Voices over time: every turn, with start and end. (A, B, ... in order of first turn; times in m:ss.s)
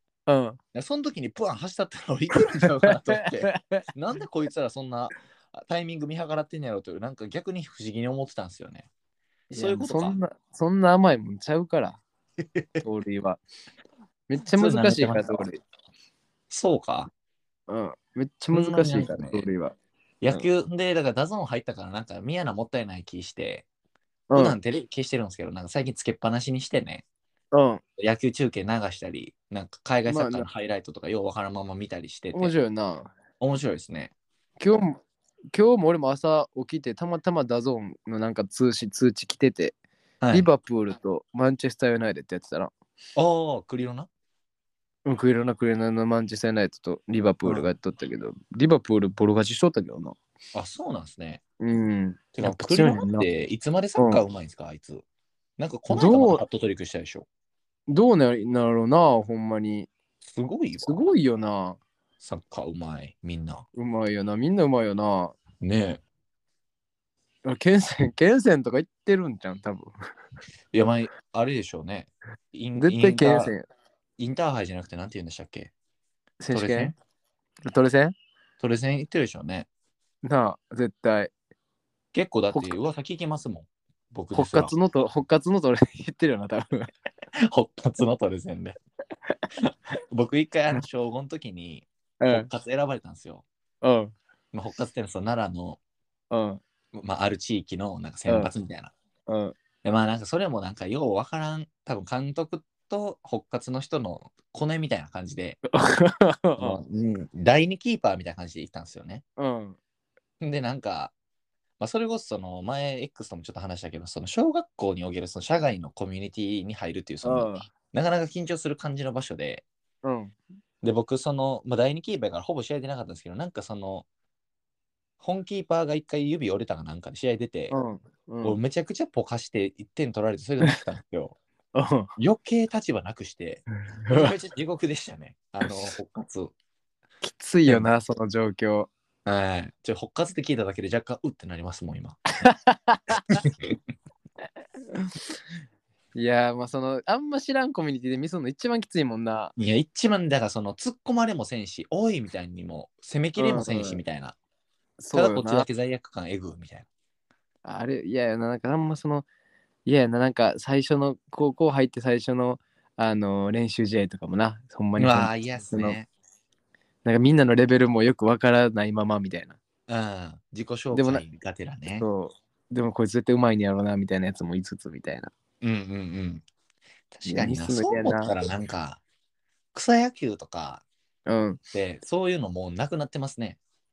0:00.3-0:00.6 A
0:00.7-0:08.9 B
0:03.2-0:03.8 A
0:09.5-0:10.2 B
0:09.5-0:12.0 A
0:12.4-0:12.8 B
0:12.8-0:13.4 A
0:14.3-0:15.6 A
0:14.5-0:15.4 B
0:16.5-0:17.1 B
0:17.7-0:19.7 A
0:18.5-0:19.5 B
0:20.2-0:23.6 B
0:24.3-0:24.6 A
0:24.3-0:27.0 B
0:27.5-0:27.8 A
0:28.0-0:32.5 B
0:30.1-0:30.5 A
0:32.3-0:33.1 A
0:33.4-0:34.1 B
0:34.6-0:35.0 A
0:35.5-0:39.7 A
0:40.2-0:40.5 B
0:40.3-0:42.7 A
0:43.2-0:44.1 B
0:45.0-0:50.2 A
0:50.5-0:51.4 B
0:51.6-0:53.3 A
0:52.3-0:55.0 B
0:54.0-0:54.2 A
0:55.6-0:57.2 B
0:55.9-0:56.4 A
0:57.9-0:59.9 A
1:00.2-1:01.1 B
1:00.8-1:01.8 A
1:02.2-1:03.6 B
1:03.7-1:05.4 A
1:05.6-1:06.0 B
1:07.4-1:09.9 A
1:10.7-1:13.5 B
1:12.8-1:13.6 A
1:14.2-1:15.7 B
1:16.4-1:16.9 A
1:16.5-1:16.9 B
1:17.6-1:18.1 A
1:18.6-1:19.7 B
1:20.2-1:21.3 A
1:22.1-1:24.7 B
1:24.3-1:26.9 A
1:27.4-1:28.8 B
1:29.6-1:33.4 B
1:32.2-1:32.5 A
1:33.8-1:34.1 A
1:34.5-1:35.8 B
1:36.3-1:36.6 A
1:36.9-1:38.9 B
1:39.3-1:39.5 A
1:39.8-1:45.6 B
1:45.7-1:46.8 A
1:46.6-1:49.2 B
1:49.4-1:49.8 A
1:50.4-1:51.1 B
1:51.8-1:59.6 B
1:57.2-1:57.7 A
2:00.0-2:00.4 A
2:00.8-2:04.0 B
2:05.2-2:07.7 B
2:07.7-2:08.6 A
2:08.4-2:11.4 B
2:11.7-2:12.1 A
2:12.2-2:16.5 B
2:13.9-2:14.3 A
2:17.2-2:18.9 A
2:19.2-2:22.2 B
2:22.4-2:23.4 A
2:23.3-2:23.7 B
2:26.1-2:29.5 A
2:29.6-2:34.4 B
2:33.4-2:34.0 A
2:35.0-2:35.7 A
2:35.1-2:36.9 B
2:37.6-2:39.2 A
2:39.8-2:46.0 A
2:45.0-2:46.1 B
2:47.0-2:49.6 A
2:49.9-2:52.1 B
2:50.9-2:51.2 A
2:52.0-2:55.3 A
2:55.6-2:56.4 B
2:57.1-2:59.0 B
2:57.2-2:58.3 A
2:59.7-3:00.8 B
3:01.2-3:01.6 A
3:01.7-3:03.6 B